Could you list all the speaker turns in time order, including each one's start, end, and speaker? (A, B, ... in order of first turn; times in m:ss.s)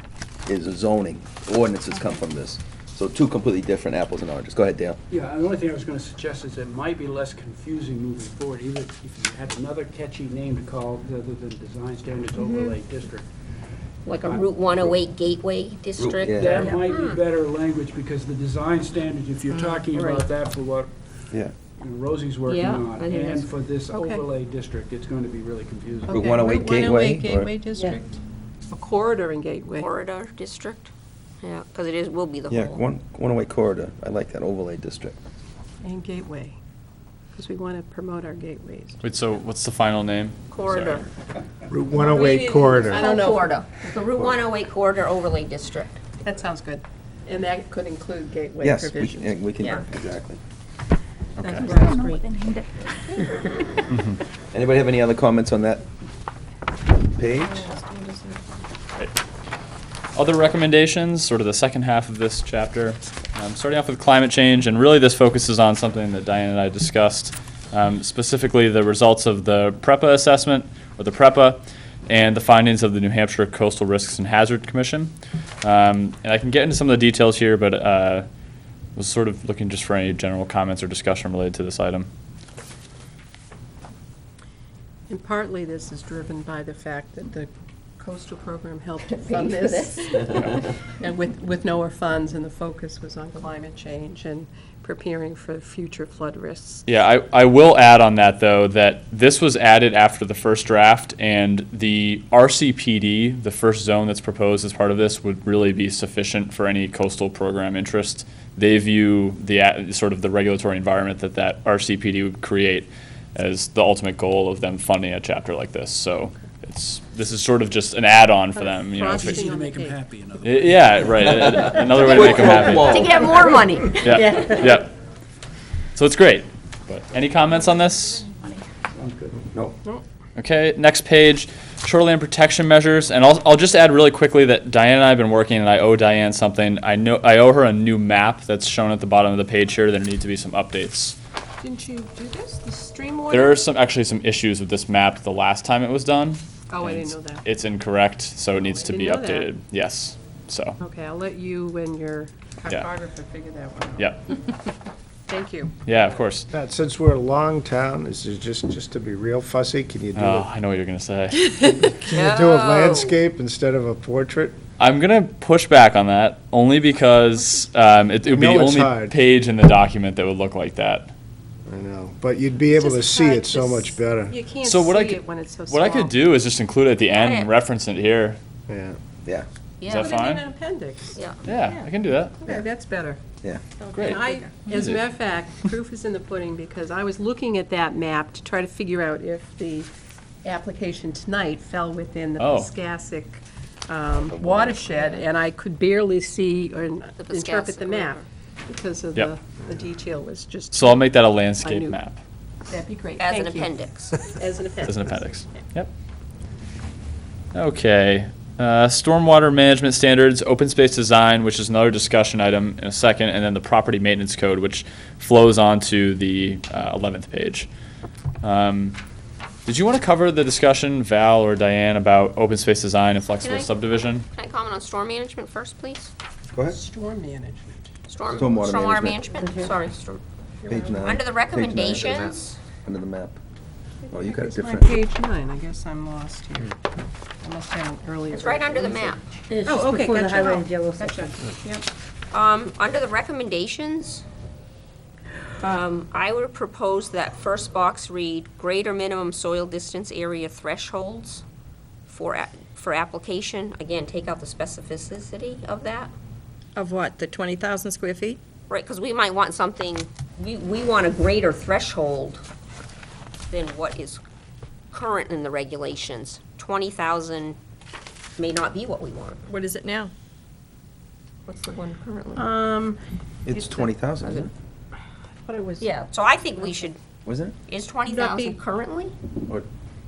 0:00.5-0:05.0 A
0:05.1-0:13.3 B
0:12.4-0:12.7 C
0:14.0-0:17.2 D
0:16.0-0:16.7 A
0:16.2-0:21.0 B
0:19.5-0:20.1 C
0:19.9-0:20.2 D
0:21.8-0:26.3 B
0:22.4-0:24.2 D
0:26.1-0:28.2 E
0:26.1-0:27.6 A
0:28.7-0:29.9 E
0:29.8-0:32.8 D
0:32.5-0:35.2 A
0:35.8-0:36.6 E
0:37.4-0:39.0 E
0:39.0-0:41.0 F
0:40.5-0:41.0 D
0:41.7-0:43.1 G
0:42.0-0:46.0 D
0:42.9-0:43.6 E
0:46.2-0:49.8 E
0:48.6-0:50.4 A
0:49.6-0:49.8 D
0:51.4-0:51.9 F
0:51.6-0:53.5 H
0:51.7-0:52.1 D
0:53.9-0:54.2 F
0:54.5-0:55.8 A
0:57.1-0:57.7 A
0:57.7-0:58.0 C
1:00.1-1:18.2 F
1:19.0-1:22.1 F
1:25.1-1:36.9 E
1:29.1-1:30.6 D
1:36.9-1:59.4 F
1:58.5-2:00.0 E
1:59.2-2:01.2 B
2:00.4-2:03.1 F
2:01.2-2:03.6 A
2:02.0-2:04.7 D
2:04.0-2:04.9 F
2:06.0-2:08.3 F
2:08.3-2:08.6 H
2:08.9-2:09.4 B
2:10.4-2:21.2 F
2:21.6-2:23.6 E
2:23.3-2:30.8 F
2:26.7-2:27.4 E
2:28.6-2:29.5 E
2:30.8-2:34.1 E
2:34.0-2:34.2 F
2:35.3-2:35.7 E
2:35.9-2:36.5 F
2:36.5-2:40.5 G
2:40.2-2:41.5 F
2:41.8-2:44.6 G
2:42.1-2:43.2 D
2:44.8-2:51.1 F
2:48.2-2:49.2 G
2:51.7-2:54.4 G
2:52.8-2:56.3 E
2:54.6-2:58.4 F
2:57.1-2:57.5 D
2:58.7-2:59.0 G
2:59.8-3:00.1 D
2:59.8-3:00.5 F
2:59.9-3:01.2 E
3:01.1-3:01.5 D
3:01.4-3:02.4 F
3:01.6-3:01.9 C
3:02.4-3:03.2 E
3:03.8-3:04.6 C
3:03.9-3:05.1 F
3:04.0-3:09.9 E
3:10.4-3:22.0 E
3:12.4-3:12.7 F
3:14.3-3:15.0 A
3:17.2-3:18.2 D
3:20.7-3:22.2 F
3:22.7-3:25.4 E
3:23.2-3:24.3 D
3:24.8-3:25.9 F
3:27.5-3:37.7 F
3:38.4-3:39.0 F
3:39.7-3:44.2 F
3:43.4-3:46.1 D
3:46.5-3:46.8 A
3:46.7-3:47.9 E
3:48.1-3:50.2 D
3:48.3-3:49.4 A
3:50.6-3:50.9 E
3:50.7-3:53.4 A
3:51.0-3:52.6 D
3:54.0-3:56.8 E
3:54.1-3:55.0 A
3:57.4-4:01.3 E
3:58.3-3:59.4 D
4:01.0-4:01.3 D
4:01.5-4:01.9 C
4:02.3-4:04.2 D
4:05.6-4:11.4 D
4:12.1-4:16.1 D
4:16.8-4:18.4 C
4:18.7-4:22.4 D
4:23.5-4:24.2 D
4:24.9-4:27.6 D
4:28.4-4:29.4 D
4:29.5-4:30.1 C
4:31.5-4:32.5 D
4:32.4-4:33.0 E
4:33.5-4:34.5 A
4:33.5-4:33.9 E
4:34.2-4:34.5 D
4:35.5-4:36.0 E
4:35.8-4:37.0 D
4:36.5-4:36.8 E
4:37.2-4:37.6 A
4:37.7-4:39.1 D
4:38.1-4:38.6 E